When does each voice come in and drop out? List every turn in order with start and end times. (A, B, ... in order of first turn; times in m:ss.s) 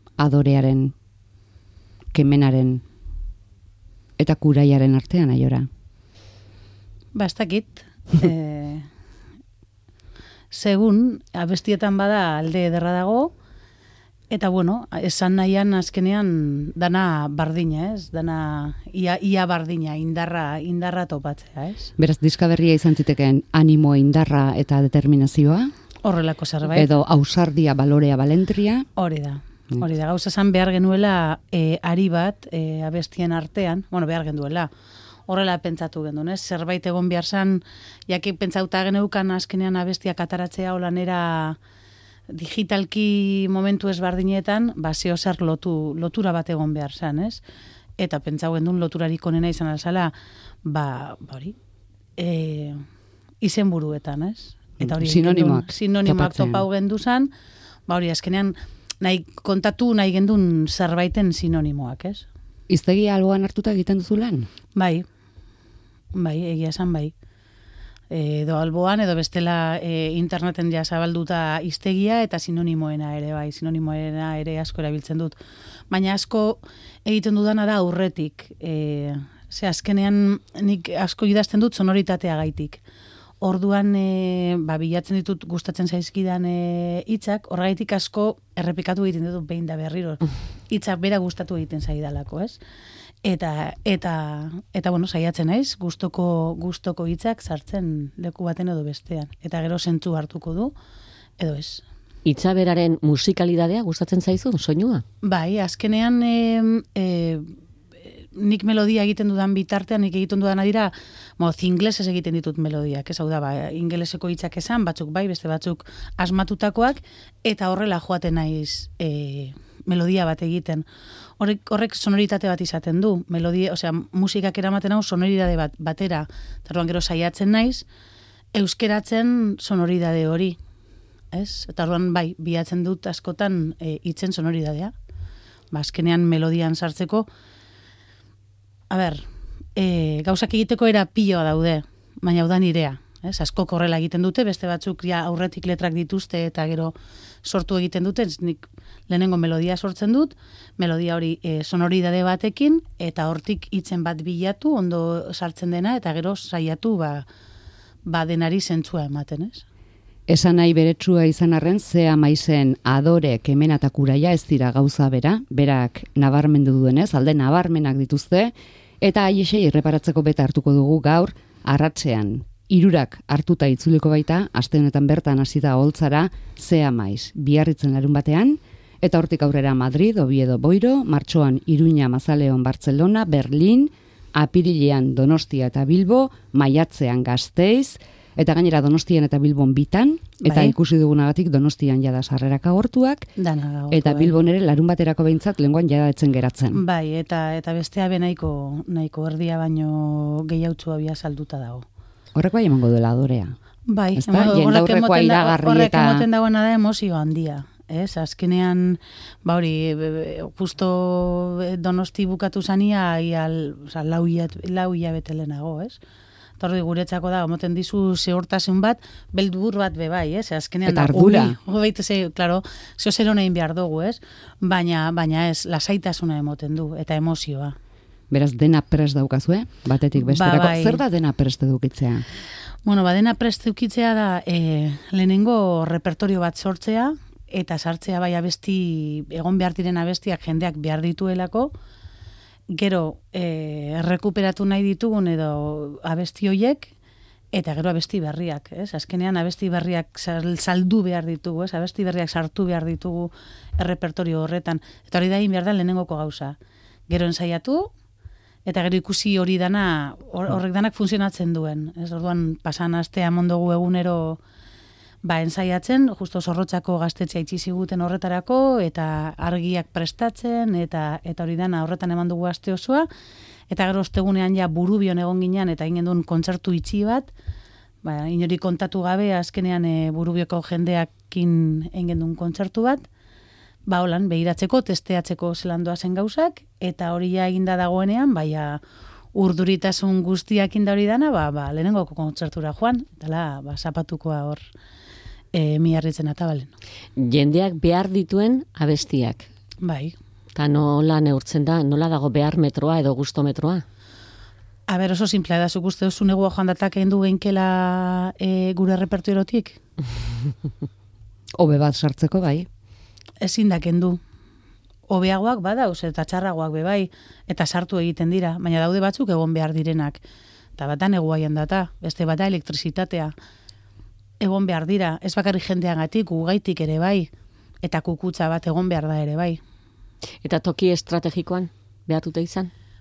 0:00.2-0:00.9 A
0:02.1-0:02.8 A
0:04.2-0:05.7 A
0:07.1-0:08.9 B
0:10.5-0:13.3 B
0:14.3-0:21.9 B
0:22.0-0:25.7 A
0:26.0-0:26.9 B
0:26.7-0:28.9 A
0:29.0-0:34.7 B
0:35.3-0:41.6 B
0:42.3-0:47.4 B
0:48.0-0:51.6 B
0:52.2-0:52.8 B
0:53.4-0:57.3 B
0:54.8-0:56.6 A
0:57.9-1:02.3 B
1:02.7-1:04.5 A
1:04.7-1:05.0 B
1:06.1-1:07.1 B
1:08.1-1:15.4 B
1:15.9-1:22.8 B
1:23.4-1:32.6 B
1:33.2-1:40.7 B
1:41.4-1:41.8 B
1:42.2-1:45.0 C
1:45.2-2:00.9 B
2:01.4-2:07.8 B
2:08.5-2:10.6 B
2:11.3-2:14.9 B
2:15.7-2:17.3 B
2:18.9-2:37.3 B
2:38.0-2:39.6 B
2:40.3-3:13.3 A
3:10.4-3:10.7 B
3:13.4-3:14.3 B
3:13.9-3:16.8 A
3:16.7-3:21.8 B
3:22.3-3:23.5 A
3:23.9-3:36.0 B
3:24.2-3:26.2 A
3:36.6-3:47.8 B
3:40.8-3:41.6 A
3:48.3-3:52.2 A
3:50.1-3:51.0 B
3:52.8-4:01.7 B
4:02.7-4:06.9 B
4:07.5-4:16.6 B
4:17.1-4:17.9 B
4:18.6-4:24.4 B
4:25.2-4:33.0 B
4:33.7-4:37.3 B
4:38.0-4:43.0 B
4:43.9-4:48.8 B
4:49.3-4:54.6 B
4:55.5-4:56.7 B
4:57.2-4:59.5 C
4:59.8-5:00.1 B
5:00.5-5:03.8 C
5:04.9-5:09.8 B
5:11.6-5:12.7 A
5:13.4-5:14.2 B
5:15.1-5:20.2 B
5:20.8-5:23.3 B
5:24.4-5:27.3 B
5:27.8-5:29.6 B
5:30.4-5:32.7 C